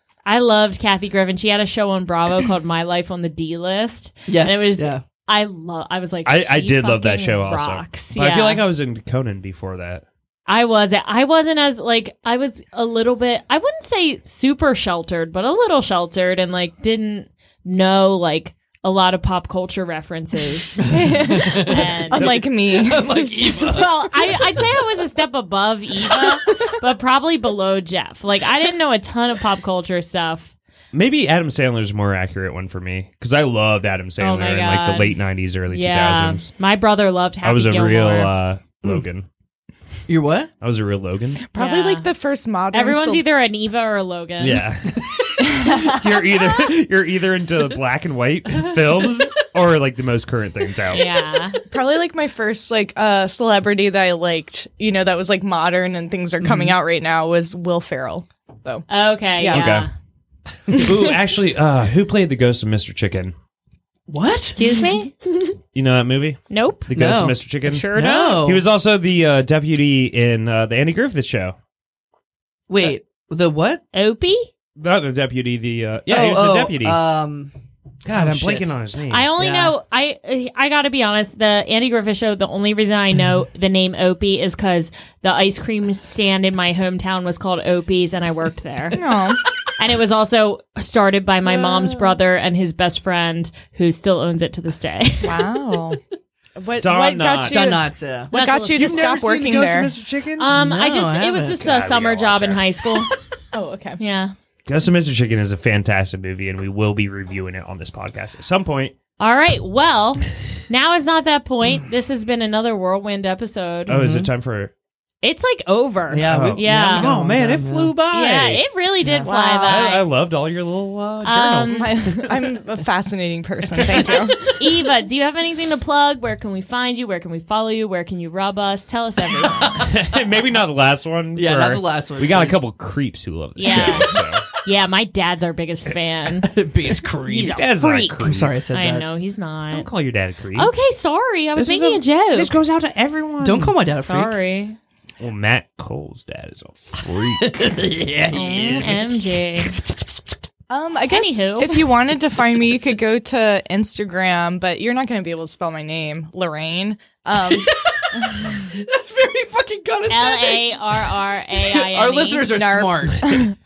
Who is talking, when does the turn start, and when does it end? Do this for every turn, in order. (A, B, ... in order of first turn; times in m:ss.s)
0:00.2-0:08.6 A
0:04.3-0:05.0 B
0:06.2-0:10.0 C
0:10.5-0:22.4 A
0:20.8-0:23.5 D
0:21.1-0:22.0 B
0:22.7-0:24.7 B
0:23.6-0:30.5 A
0:26.1-0:26.7 B
0:30.9-0:36.5 C
0:34.2-0:35.2 A
0:35.7-0:38.4 A
0:37.4-0:39.3 C
0:40.1-0:40.5 B
0:40.6-0:41.4 C
0:41.4-0:43.2 D
0:41.6-0:42.1 A
0:42.7-0:44.6 A
0:44.4-0:51.0 C
0:45.6-0:46.1 D
0:50.9-0:51.6 A
0:51.7-0:58.8 D
0:56.4-0:56.8 B
0:58.9-0:59.9 A
0:59.4-0:59.8 D
0:59.4-0:59.9 C
1:00.7-1:03.4 C
1:00.7-1:01.1 D
1:04.1-1:04.6 B
1:04.6-1:05.1 A
1:05.7-1:11.6 C
1:06.5-1:06.9 A
1:06.9-1:07.4 B
1:07.6-1:08.5 A
1:07.9-1:08.6 B
1:12.7-1:13.8 B
1:13.9-1:14.5 A
1:14.8-1:17.0 C
1:16.1-1:17.5 B
1:18.0-1:19.3 C
1:18.0-1:18.7 B
1:19.1-1:35.7 A
1:19.4-1:19.7 B
1:28.9-1:29.4 D
1:31.4-1:32.2 B
1:35.2-1:36.0 D
1:36.6-1:39.9 D
1:36.8-1:37.8 C
1:37.4-1:38.3 B
1:38.3-1:39.0 A
1:38.7-1:40.5 C
1:40.4-1:43.1 A
1:40.5-1:41.7 B
1:41.5-1:42.7 C
1:43.5-1:44.0 D
1:44.0-1:44.3 A
1:44.7-1:49.0 C
1:49.2-1:54.0 A
1:53.9-1:54.7 C
1:53.9-1:54.3 B
1:55.2-1:57.1 A
1:56.1-1:57.9 B
1:56.2-2:02.3 C
1:58.1-2:00.0 A
1:59.2-2:00.0 D
2:01.2-2:01.9 A
2:01.7-2:04.6 D
2:03.9-2:09.9 A
2:09.8-2:14.4 C
2:11.4-2:12.6 B
2:13.6-2:16.6 A
2:16.4-2:17.6 B
2:17.2-2:19.9 A
2:17.5-2:18.6 C
2:18.2-2:19.0 B
2:19.7-2:20.7 C
2:20.6-2:22.5 A
2:21.6-2:23.8 C
2:23.4-2:24.4 B
2:24.0-2:24.8 A
2:25.2-2:27.7 C
2:27.4-2:29.8 B
2:28.3-2:29.8 A
2:30.7-2:37.7 D
2:31.1-2:32.0 A
2:37.3-2:43.4 B
2:40.1-2:42.5 A
2:42.5-2:43.6 D